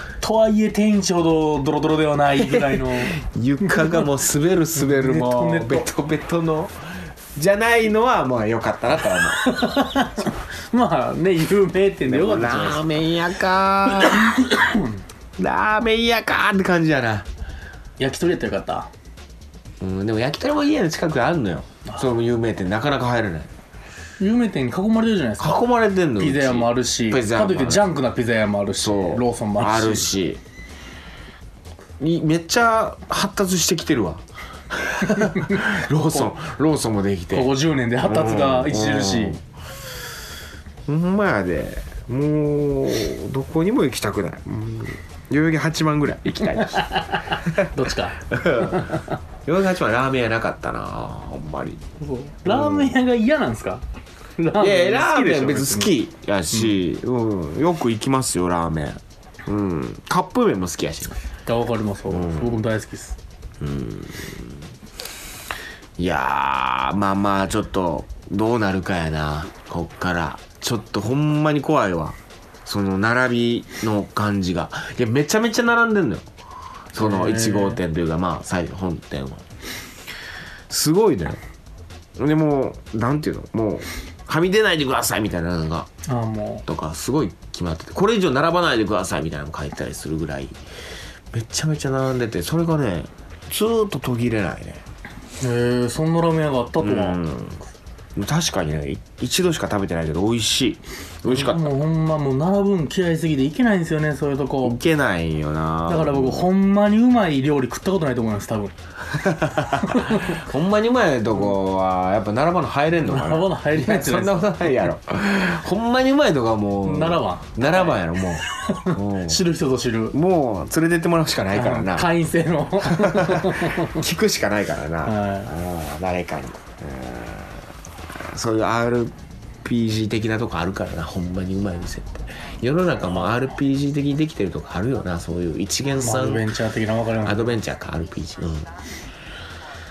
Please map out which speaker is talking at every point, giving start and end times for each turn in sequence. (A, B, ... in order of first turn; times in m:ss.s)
0:00.2-0:04.0 A
0:02.4-0:06.7 B
0:04.8-0:05.9 A
0:07.3-0:09.5 B
0:09.4-0:12.8 A
0:12.1-0:14.3 B
0:14.1-0:15.0 A
0:15.4-0:17.3 B
0:18.0-0:18.9 A
0:19.8-0:23.5 B
0:24.2-0:25.6 A
0:25.4-0:27.9 B
0:26.2-0:30.1 A
0:28.8-0:30.4 B
0:32.0-0:39.4 B
0:35.1-0:36.3 A
0:37.3-0:39.4 A
0:40.9-0:51.8 B
0:46.9-0:49.0 A
0:52.0-0:53.8 A
0:52.4-0:53.0 B
0:54.4-0:55.9 A
0:54.5-1:01.2 B
1:01.4-1:03.2 A
1:02.1-1:02.6 B
1:03.6-1:04.6 B
1:06.0-1:16.3 B
1:16.9-1:19.4 B
1:17.0-1:17.8 A
1:20.7-1:21.4 B
1:22.2-1:25.9 B
1:26.0-1:26.6 A
1:26.6-1:30.6 B
1:31.3-1:34.8 B
1:35.4-1:37.2 A
1:36.8-1:37.6 B
1:38.2-1:41.7 B
1:41.2-1:44.8 A
1:44.6-1:46.5 B
1:45.9-1:48.7 A
1:49.1-1:59.4 B
1:49.8-1:50.4 A
1:53.0-1:54.7 A
1:56.8-1:57.9 A
1:58.6-2:00.2 A
2:00.1-2:02.1 B
2:01.5-2:04.0 A
2:02.8-2:16.5 B
2:05.0-2:05.5 A
2:16.0-2:17.5 A
2:17.2-2:18.7 B